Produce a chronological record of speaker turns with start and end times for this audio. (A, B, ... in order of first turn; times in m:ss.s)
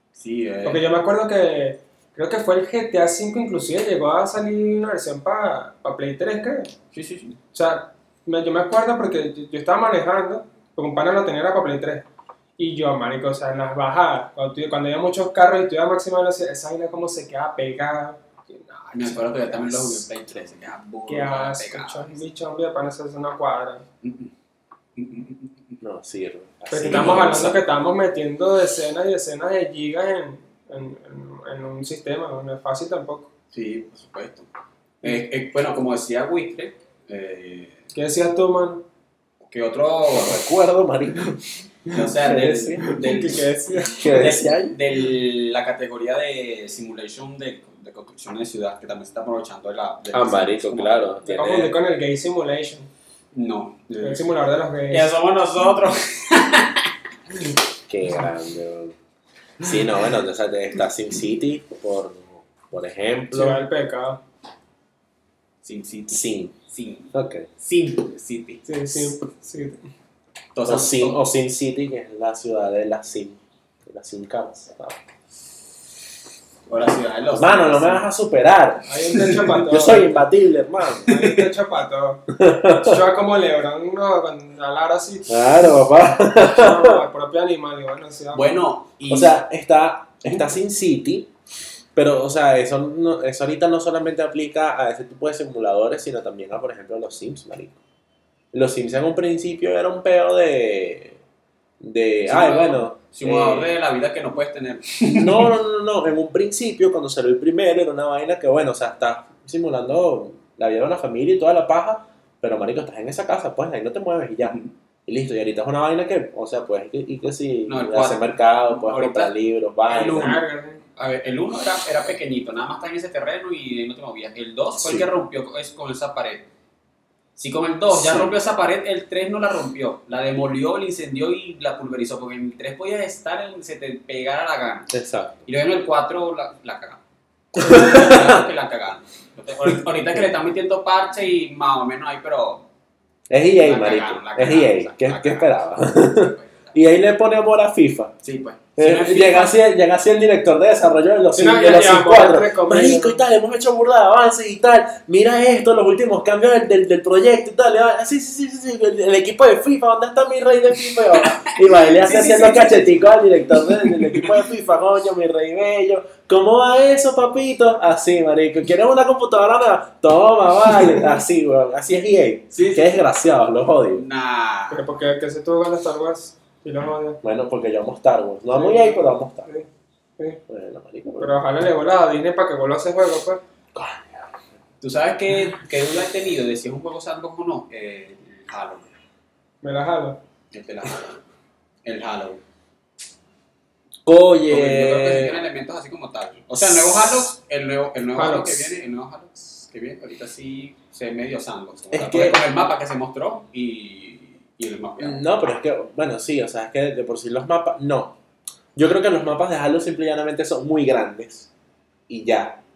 0:00.2-0:00.8 A
0:00.6-0:06.7 B
0:06.9-0:07.4 A
0:07.5-0:12.0 B
0:12.6-0:20.0 B
0:18.9-0:22.2 A
0:21.1-0:23.8 B
0:24.0-0:24.3 A
0:25.0-0:25.8 A
0:25.8-0:27.6 C
0:26.7-0:33.3 B
0:26.8-0:27.5 A
0:33.5-0:34.5 A
0:35.0-0:37.8 A
0:37.9-0:38.8 B
0:39.4-0:40.4 A
0:40.1-0:41.4 C
0:41.9-0:43.4 A
0:42.0-0:43.0 C
0:42.8-0:44.2 B
0:43.9-0:44.8 C
0:44.0-0:51.1 A
0:50.1-0:51.7 C
0:51.2-0:52.9 B
0:53.3-0:54.3 A
0:54.0-0:55.1 B
0:54.9-0:56.9 A
0:57.9-0:58.9 C
0:59.6-1:03.6 C
1:03.3-1:04.2 B
1:05.6-1:08.6 A
1:06.1-1:06.5 C
1:07.1-1:07.5 C
1:08.6-1:09.8 B
1:10.5-1:11.2 A
1:10.6-1:15.0 C
1:16.7-1:18.1 A
1:17.3-1:21.1 C
1:18.9-1:20.2 B
1:21.0-1:22.2 B
1:21.1-1:21.4 A
1:22.3-1:23.0 C
1:22.8-1:25.6 B
1:25.3-1:27.0 C
1:26.4-1:28.5 B
1:28.3-1:29.4 A
1:29.1-1:31.3 C
1:31.9-1:37.8 C
1:38.5-1:41.2 C
1:41.8-1:43.7 C
1:42.2-1:45.5 A
1:45.1-2:00.4 C
1:54.4-1:54.7 A
1:57.7-1:59.3 A
1:59.9-2:00.4 A
2:00.1-2:00.8 B
2:01.0-2:06.4 A
2:04.8-2:05.1 C
2:07.4-2:14.9 A
2:07.9-2:08.3 C
2:14.9-2:15.4 C
2:15.4-2:17.0 A
2:17.5-2:18.4 C
2:17.6-2:22.6 A
2:19.6-2:20.2 C
2:23.3-2:28.1 C
2:23.6-2:26.7 A
2:28.2-2:29.6 A
2:28.8-2:54.0 C
2:31.3-2:33.2 B
2:41.2-2:43.1 A
2:43.6-2:44.4 A
2:52.5-2:52.9 A
2:53.9-2:54.8 A
2:54.7-2:57.2 B
2:57.2-2:59.5 C
2:58.5-2:59.6 B
3:00.5-3:01.4 C
3:01.2-3:03.4 B
3:03.7-3:04.3 C
3:04.8-3:08.9 A
3:09.6-3:10.2 B
3:10.5-3:11.2 A
3:11.8-3:12.4 A
3:14.0-3:15.4 C
3:14.5-3:25.2 A
3:16.6-3:17.3 C
3:18.2-3:18.7 B
3:21.9-3:22.5 C
3:25.0-3:28.2 C
3:28.8-3:31.5 C
3:32.1-3:32.6 C